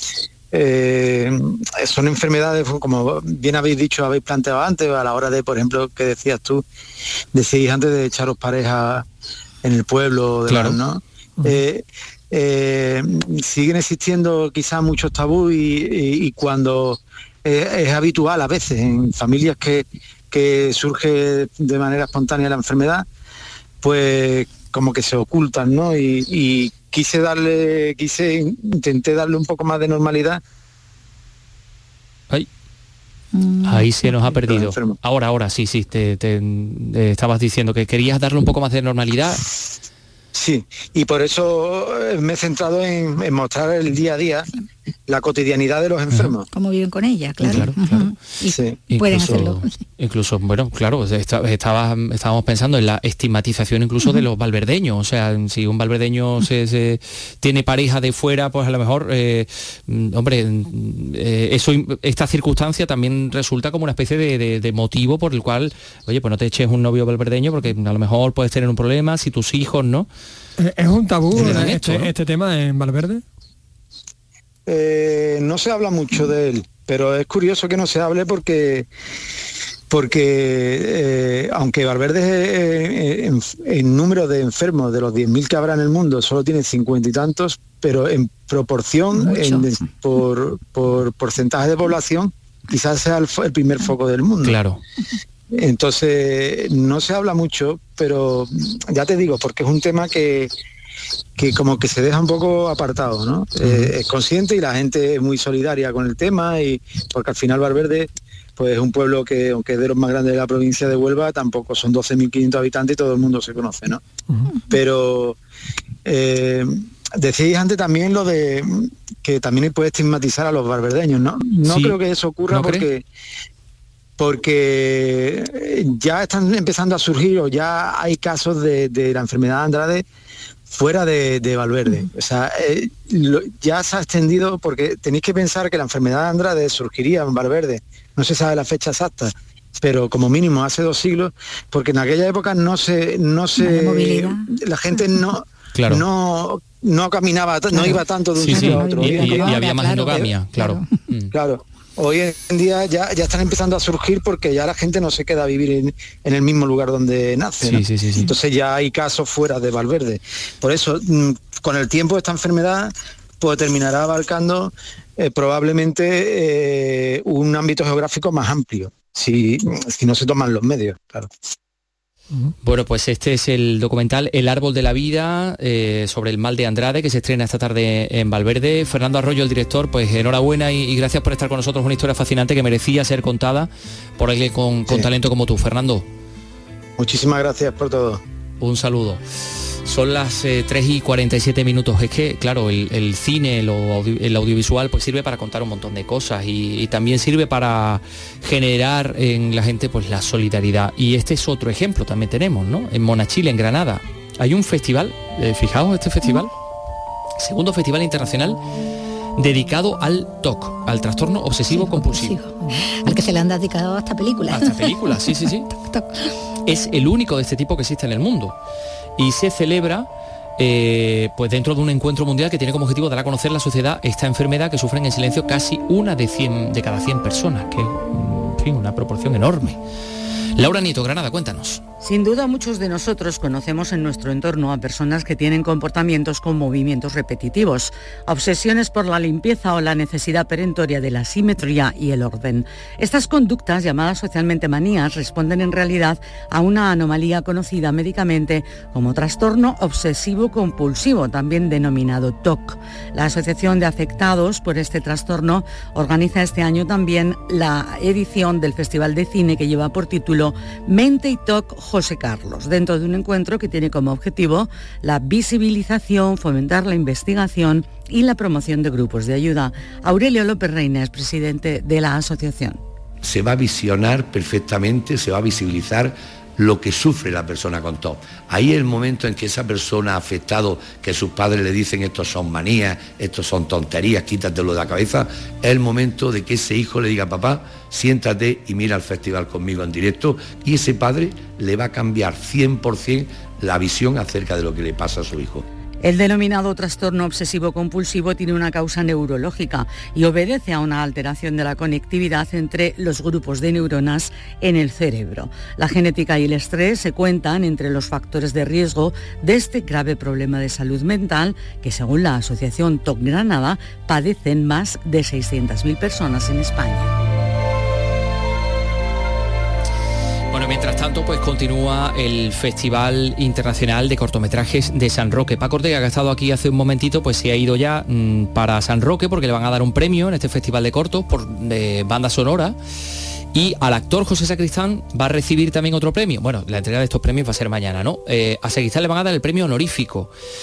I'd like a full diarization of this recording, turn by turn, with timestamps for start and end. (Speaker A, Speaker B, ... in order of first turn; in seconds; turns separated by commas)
Speaker A: 0.5-6.6, Speaker A: 7.3-9.1, Speaker A: 9.6-23.1, Speaker B: 10.5-10.8, Speaker A: 23.8-30.4, Speaker C: 33.3-34.2, Speaker B: 33.6-39.4, Speaker A: 34.3-35.0, Speaker A: 40.3-44.5, Speaker A: 45.1-46.5, Speaker C: 46.5-49.8, Speaker B: 47.4-48.0, Speaker A: 48.5-49.4, Speaker B: 48.9-70.1, Speaker D: 70.6-73.2, Speaker B: 71.3-72.1, Speaker A: 74.7-78.9, Speaker A: 79.9-94.5, Speaker C: 89.1-89.7, Speaker B: 94.4-94.8, Speaker A: 95.5-100.5, Speaker A: 101.4-114.0, Speaker B: 103.6-103.9, Speaker A: 114.7-115.4, Speaker A: 116.0-123.0, Speaker B: 121.7-122.0, Speaker B: 122.5-122.8, Speaker A: 124.2-130.0, Speaker A: 130.7-150.2, Speaker C: 143.6-145.2, Speaker B: 145.7-146.0, Speaker C: 147.7-151.0, Speaker B: 148.4-151.3, Speaker A: 151.3-171.3, Speaker B: 157.6-158.3, Speaker B: 172.6-186.1, Speaker A: 187.0-188.2, Speaker B: 188.6-189.2, Speaker B: 189.8-206.5, Speaker B: 207.4-208.6, Speaker B: 209.4-212.4, Speaker C: 211.7-216.3, Speaker B: 214.5-215.7, Speaker B: 216.7-218.6, Speaker B: 219.2-229.8, Speaker B: 230.6-231.8, Speaker E: 232.0-272.8, Speaker F: 273.2-295.6, Speaker E: 296.0-317.1, Speaker B: 320.5-332.8, Speaker B: 333.5-340.3